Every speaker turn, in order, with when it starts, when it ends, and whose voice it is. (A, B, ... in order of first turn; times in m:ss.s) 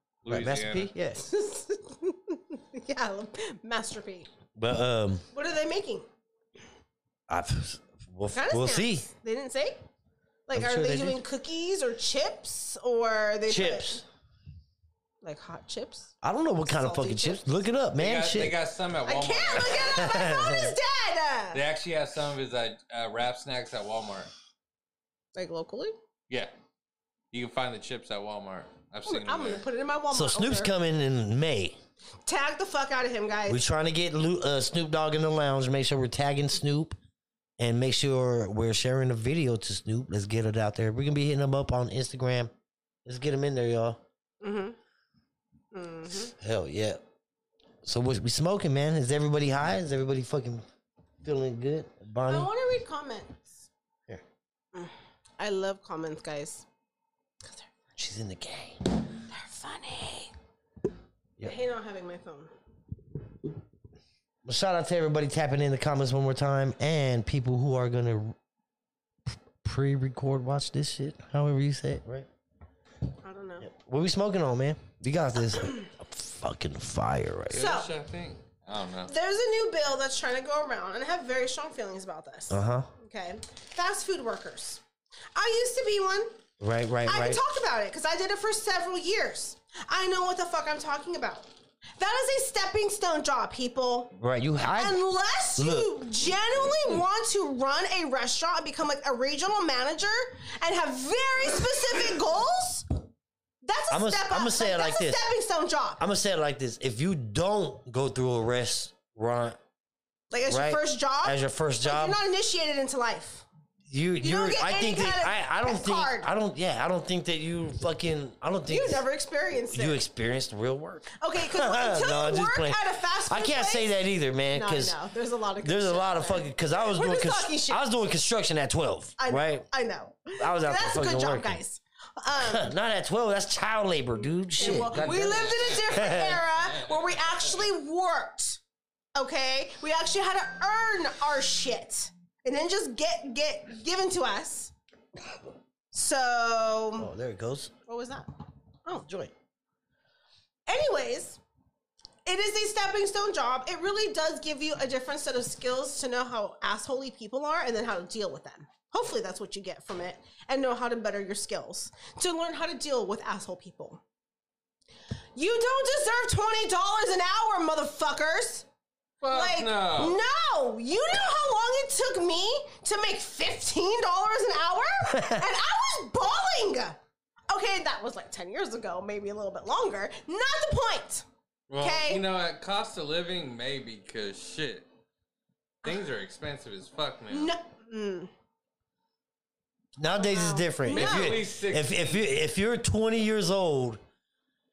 0:00.2-0:00.9 A
0:00.3-0:01.2 B
0:01.2-0:04.3 C
0:04.6-0:05.2 B
0:05.3-0:06.1 C
0:07.3-0:09.1 B
0:08.3-0:09.8 C
0:10.5-0:14.0 C
0:10.5-0:11.2 B
0:13.5-0:14.0 B
0:15.2-0:16.1 C
0:16.2-0:18.6 B
0:16.6-0:17.5 C
0:18.0-0:20.0 A
0:19.1-0:21.6 C
0:19.8-0:20.8 B
0:21.5-0:24.3 A
0:25.4-0:26.0 C
0:27.3-0:29.6 A
0:29.1-0:30.8 C
0:30.1-0:31.8 B
0:32.3-0:33.6 C
0:33.5-0:37.0 B
0:37.6-0:42.5 B
0:43.0-0:44.0 B
0:44.4-0:44.8 C
0:45.7-0:46.3 C
0:46.3-0:47.0 B
0:47.8-0:50.6 B
0:51.2-0:52.5 B
0:52.3-0:53.6 C
0:54.7-0:56.7 C
0:58.0-0:58.8 B
0:59.3-1:00.3 C
1:01.4-1:02.5 C
1:04.4-1:08.4 B
1:09.6-1:12.3 B
1:13.2-1:13.7 C
1:13.6-1:17.8 B
1:17.5-1:19.1 A
1:17.5-1:17.9 C
1:19.1-1:24.8 C
1:22.5-1:22.9 B
1:25.4-1:26.3 C
1:26.6-1:27.4 B
1:27.0-1:34.1 C
1:34.2-1:35.0 B
1:34.7-1:43.0 C
1:35.6-1:35.9 B
1:43.6-1:46.0 C
1:43.9-1:45.2 B
1:46.0-1:49.6 B
1:50.3-1:53.4 C
1:50.5-1:52.2 B
1:53.9-1:59.0 B
1:54.2-1:56.3 C
1:58.7-2:00.0 C
1:59.7-2:05.0 B
2:01.2-2:03.9 C
2:04.5-2:07.8 C
2:05.6-2:09.7 B
2:09.2-2:12.7 C
2:10.4-2:11.6 B
2:12.4-2:16.4 B
2:14.6-2:18.6 C
2:14.6-2:16.0 A
2:16.7-2:17.0 A
2:19.2-2:24.7 C
2:25.9-2:27.1 C
2:27.0-2:27.7 B
2:27.9-2:28.3 C
2:29.0-2:29.3 B
2:30.7-2:31.4 C
2:32.2-2:44.0 C
2:45.4-2:48.7 C
2:49.2-2:57.0 C
2:49.2-2:50.2 A
2:55.1-2:55.5 B
2:57.5-3:01.2 C
3:01.7-3:04.8 A
3:01.8-3:02.2 C
3:05.8-3:07.5 A
3:07.3-3:08.3 C
3:10.0-3:14.0 B
3:10.1-3:11.4 C
3:10.9-3:12.2 A